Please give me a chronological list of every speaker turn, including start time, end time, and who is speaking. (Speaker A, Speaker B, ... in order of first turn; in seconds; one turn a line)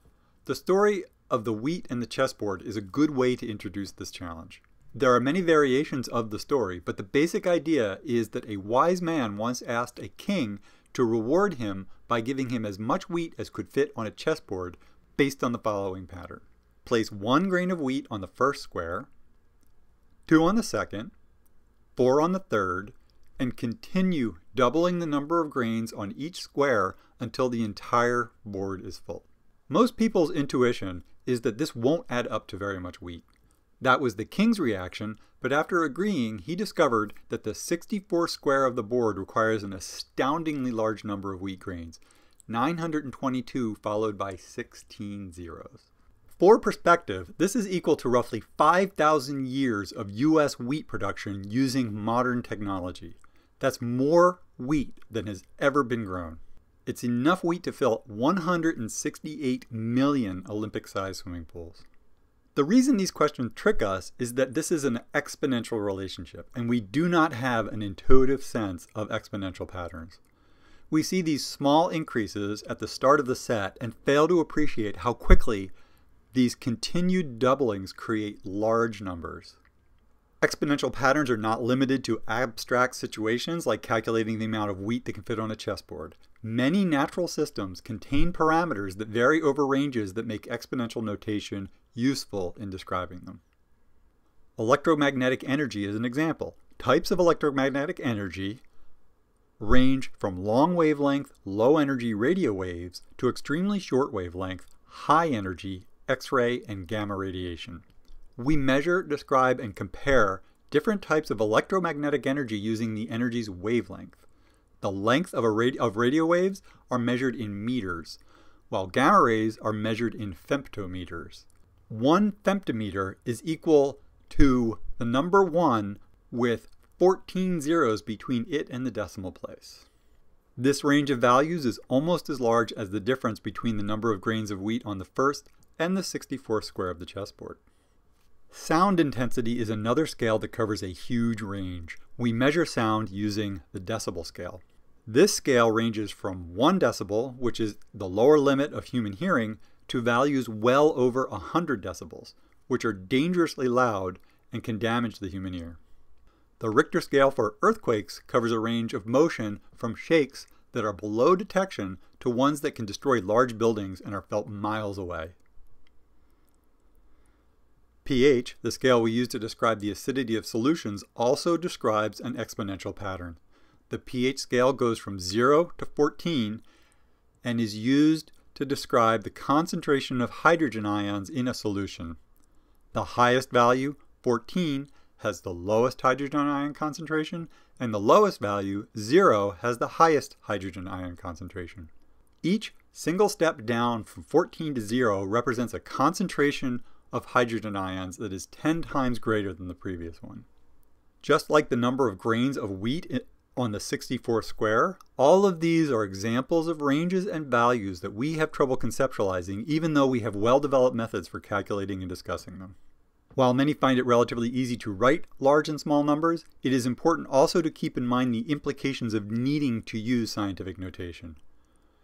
Speaker A: 0.4-19.1
Speaker A: 20.3-21.1
Speaker A: 21.9-33.3
Speaker A: 33.8-61.8
Speaker A: 62.5-70.2
Speaker A: 70.9-75.7
Speaker A: 76.3-79.6
Speaker A: 80.4-93.4
Speaker A: 94.6-98.6
Speaker A: 99.6-107.8
Speaker A: 108.4-114.2
Speaker A: 114.8-129.8
Speaker A: 130.6-137.6
Speaker A: 138.5-155.8
Speaker A: 156.6-165.3
Speaker A: 168.0-173.4
Speaker A: 173.9-176.6
Speaker A: 177.4-182.2
Speaker A: 182.9-191.9
Speaker A: 192.4-200.4
Speaker A: 201.2-212.8
Speaker A: 213.3-221.4